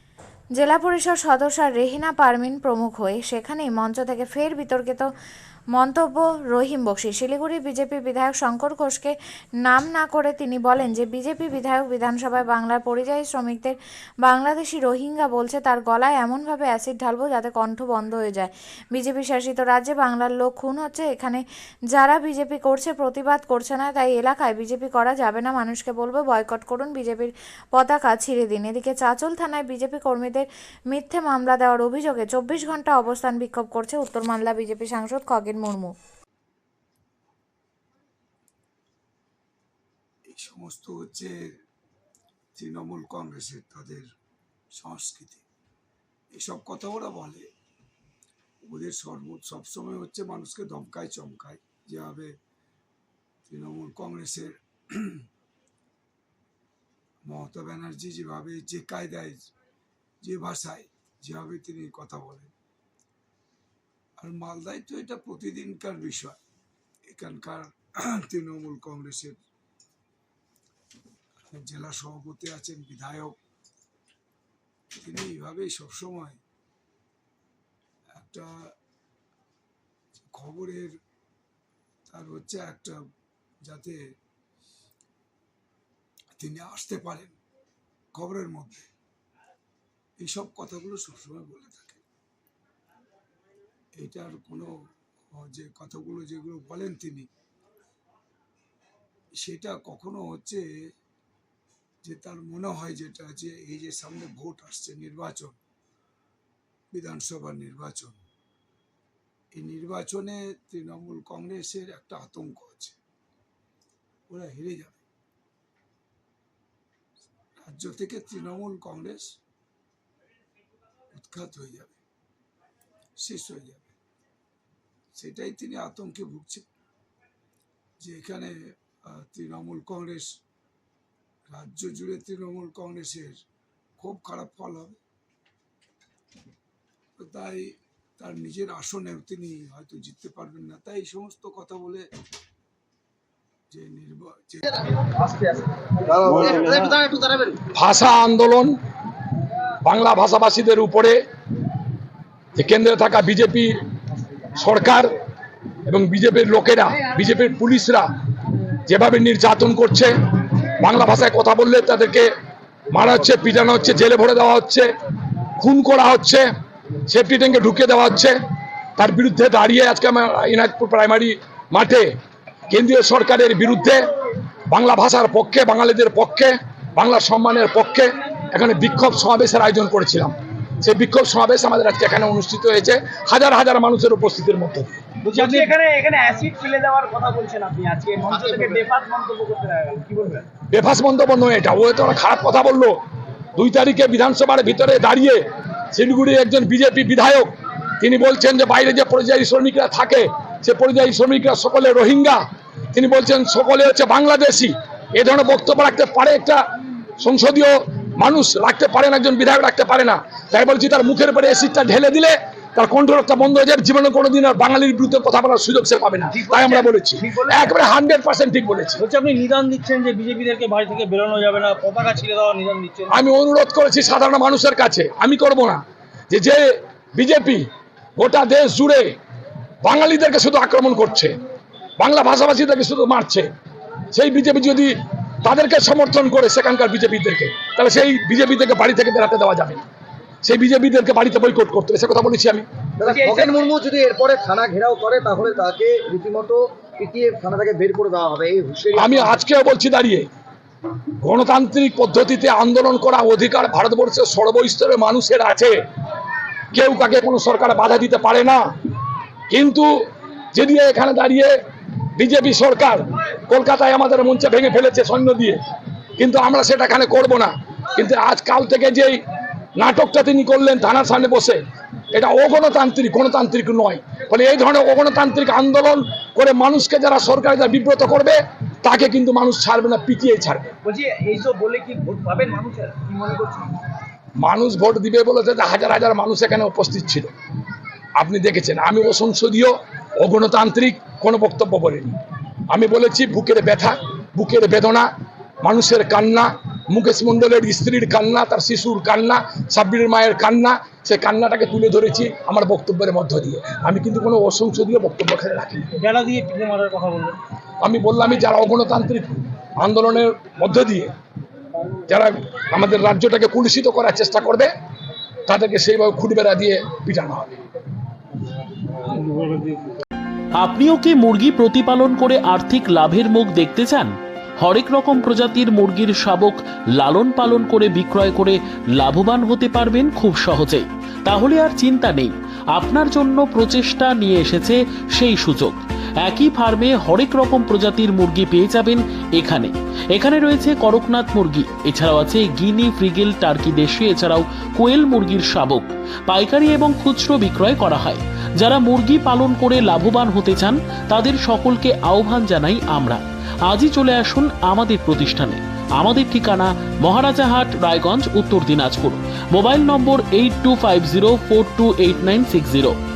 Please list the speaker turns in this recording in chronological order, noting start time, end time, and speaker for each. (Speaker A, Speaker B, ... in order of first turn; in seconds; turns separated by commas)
Speaker A: 0.6-5.1, Speaker A: 5.8-36.0, Speaker B: 40.3-41.3, Speaker B: 42.6-44.1, Speaker B: 44.8-45.4, Speaker B: 46.3-47.5, Speaker B: 48.6-52.3, Speaker B: 53.5-55.2, Speaker B: 57.3-59.5, Speaker B: 60.2-62.5, Speaker B: 64.2-66.4, Speaker B: 67.1-69.4, Speaker B: 71.5-73.4, Speaker B: 75.0-76.4, Speaker B: 78.2-78.5, Speaker B: 80.3-80.9, Speaker B: 82.1-83.0, Speaker B: 83.6-84.0, Speaker B: 86.4-87.3, Speaker B: 88.2-88.9, Speaker B: 90.2-92.0, Speaker B: 94.0-94.7, Speaker B: 95.3-97.3, Speaker B: 99.4-100.7, Speaker B: 102.0-105.6, Speaker B: 106.9-108.2, Speaker B: 109.5-113.0, Speaker B: 114.3-115.0, Speaker B: 117.6-119.3, Speaker B: 121.1-122.0, Speaker B: 123.2-123.9, Speaker B: 125.2-126.7, Speaker B: 128.0-128.5, Speaker B: 129.1-130.2, Speaker B: 131.5-133.3, Speaker B: 134.0-135.0, Speaker B: 137.2-137.6, Speaker B: 138.2-142.1, Speaker B: 143.7-144.7, Speaker C: 144.9-147.6, Speaker D: 147.8-148.7, Speaker D: 149.8-151.2, Speaker D: 152.6-153.7, Speaker D: 154.6-155.1, Speaker D: 155.9-158.1, Speaker D: 158.9-160.1, Speaker D: 160.8-162.3, Speaker D: 162.9-164.9, Speaker D: 165.6-166.5, Speaker D: 167.1-168.4, Speaker D: 169.0-172.1, Speaker D: 172.7-174.0, Speaker D: 174.7-185.7, Speaker E: 185.2-190.5, Speaker C: 188.2-188.8, Speaker D: 190.7-193.0, Speaker D: 193.6-202.4, Speaker D: 202.9-206.6, Speaker D: 207.2-219.0, Speaker E: 216.3-217.7, Speaker E: 219.0-223.2, Speaker D: 223.1-227.7, Speaker D: 228.2-229.1, Speaker D: 229.8-231.3, Speaker D: 232.0-233.5, Speaker D: 234.1-234.9, Speaker D: 235.4-239.8, Speaker D: 240.4-242.7, Speaker C: 243.0-249.4, Speaker E: 243.1-243.6, Speaker D: 249.0-250.3, Speaker D: 251.2-255.8, Speaker D: 256.7-258.6, Speaker D: 259.5-259.9, Speaker D: 260.5-261.5, Speaker D: 262.2-265.6, Speaker D: 266.2-269.2, Speaker D: 269.8-271.6, Speaker D: 272.1-280.7, Speaker E: 280.8-283.7, Speaker D: 284.4-287.3, Speaker D: 288.2-292.1, Speaker D: 292.7-295.1, Speaker D: 295.6-305.9, Speaker E: 306.0-307.4, Speaker D: 307.8-311.1, Speaker D: 312.1-314.7, Speaker D: 315.5-317.6, Speaker E: 319.2-319.7, Speaker F: 320.6-362.9